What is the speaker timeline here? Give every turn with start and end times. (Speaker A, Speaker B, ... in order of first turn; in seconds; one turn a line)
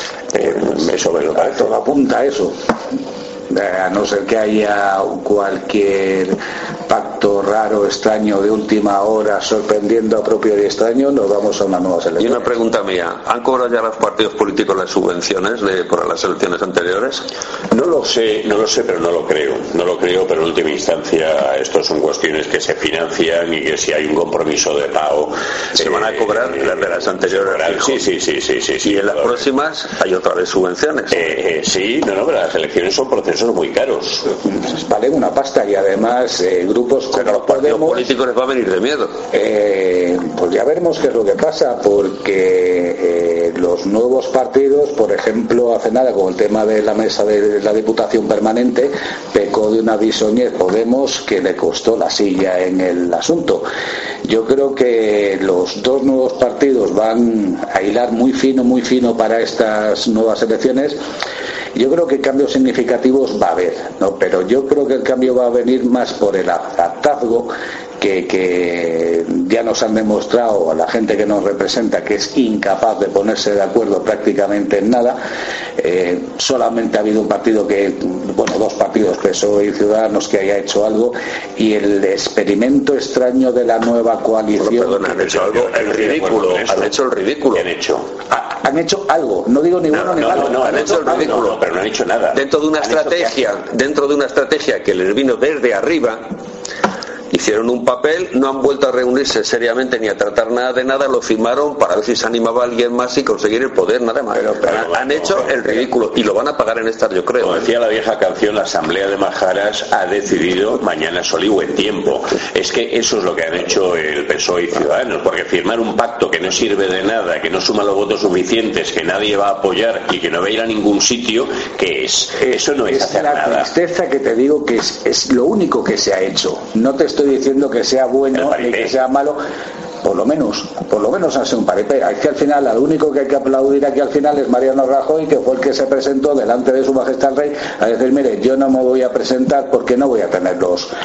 Speaker A: 0.3-1.6
Speaker B: 1.3-2.5
Speaker B: 3.5-6.3
Speaker B: 6.9-12.6
Speaker C: 12.2-17.3
Speaker A: 17.7-29.4
Speaker C: 25.8-28.0
Speaker C: 28.8-31.4
Speaker A: 31.1-34.2
Speaker B: 34.4-38.1
Speaker C: 37.1-39.1
Speaker B: 39.3-53.7
Speaker B: 54.2-61.0
Speaker B: 61.8-75.2
Speaker B: 75.8-85.1
Speaker C: 84.6-87.7
Speaker A: 85.1-86.9
Speaker A: 87.5-88.1
Speaker B: 88.3-91.4
Speaker A: 89.9-93.2
Speaker C: 90.6-91.6
Speaker C: 92.3-96.2
Speaker C: 97.3-107.7
Speaker A: 104.5-105.8
Speaker A: 107.4-123.7
Speaker B: 122.4-129.4
Speaker A: 128.3-128.9
Speaker B: 130.0-140.9